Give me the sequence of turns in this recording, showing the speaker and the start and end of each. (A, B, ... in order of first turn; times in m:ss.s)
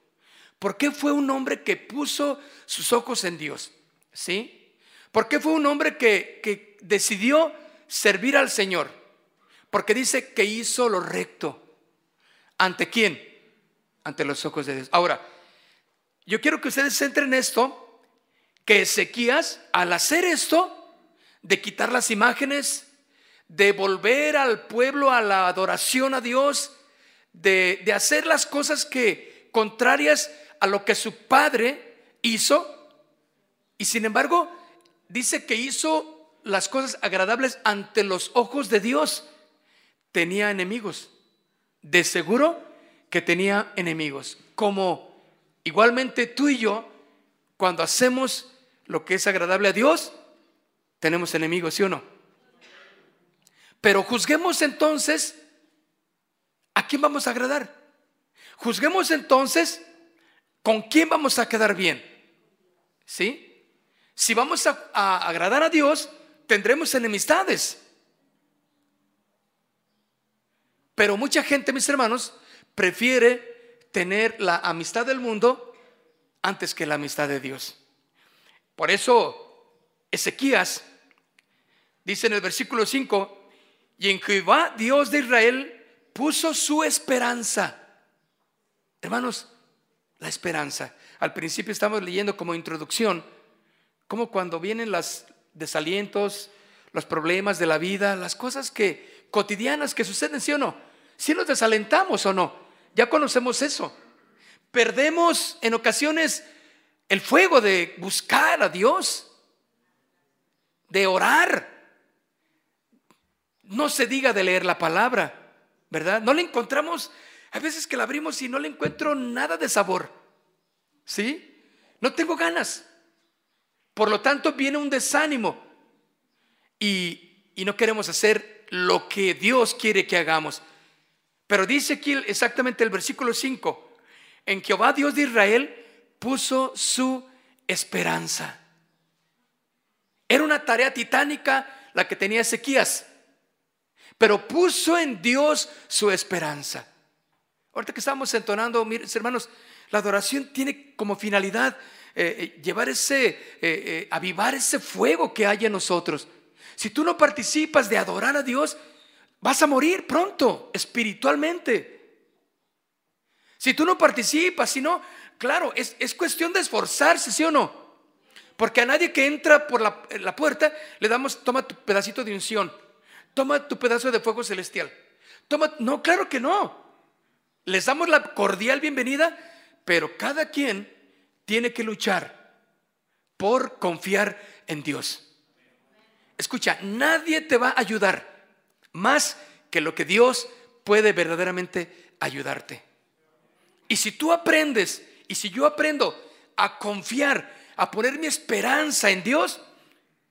0:00.6-0:04.6 A
0:05.1-0:09.0 A
0:09.7-0:11.6 A
0:12.6-0:13.3 A
0:14.0-0:15.2 A
0:16.3-0:18.0 A
0:18.7-0:20.8 A
0:21.4-0:22.9 A
0:23.5-0:26.7 A
0:27.3-0:32.8 A
0:33.8-0:34.5 A
0:35.1-0:39.3 A
0:40.1-0:41.1 A
0:41.8-0:46.9 A
0:47.6-0:50.1 A
0:51.0-0:52.0 A
0:53.8-0:55.4 A
0:56.8-0:57.8 A
0:58.6-0:59.8 A
1:00.6-1:02.1 A
1:03.1-1:03.5 A
1:04.2-1:07.8 A
1:11.0-1:15.7 A
1:16.4-1:17.8 A
1:18.8-1:19.6 A
1:20.1-1:20.8 A
1:22.0-1:23.4 A
1:24.0-1:27.8 A
1:29.0-1:29.5 A
1:30.2-1:33.3 A
1:34.1-1:43.9 A
1:44.7-1:46.4 A
1:47.1-1:49.3 A
1:50.9-1:51.8 A
1:53.6-2:00.1 A
2:01.1-2:02.9 A
2:03.9-2:05.6 A
2:06.8-2:10.6 A
2:11.5-2:13.9 A
2:14.5-2:18.6 A
2:20.3-2:23.1 A
2:24.2-2:26.9 A
2:27.7-2:38.8 A
2:39.4-2:42.0 A
2:43.6-2:47.8 A
2:48.6-2:52.7 A
2:53.4-2:55.0 A
2:55.5-2:56.9 A
2:57.6-3:00.9 A
3:01.5-3:02.4 A
3:03.4-3:05.2 A
3:06.4-3:08.3 A
3:08.9-3:12.8 A
3:13.9-3:19.6 A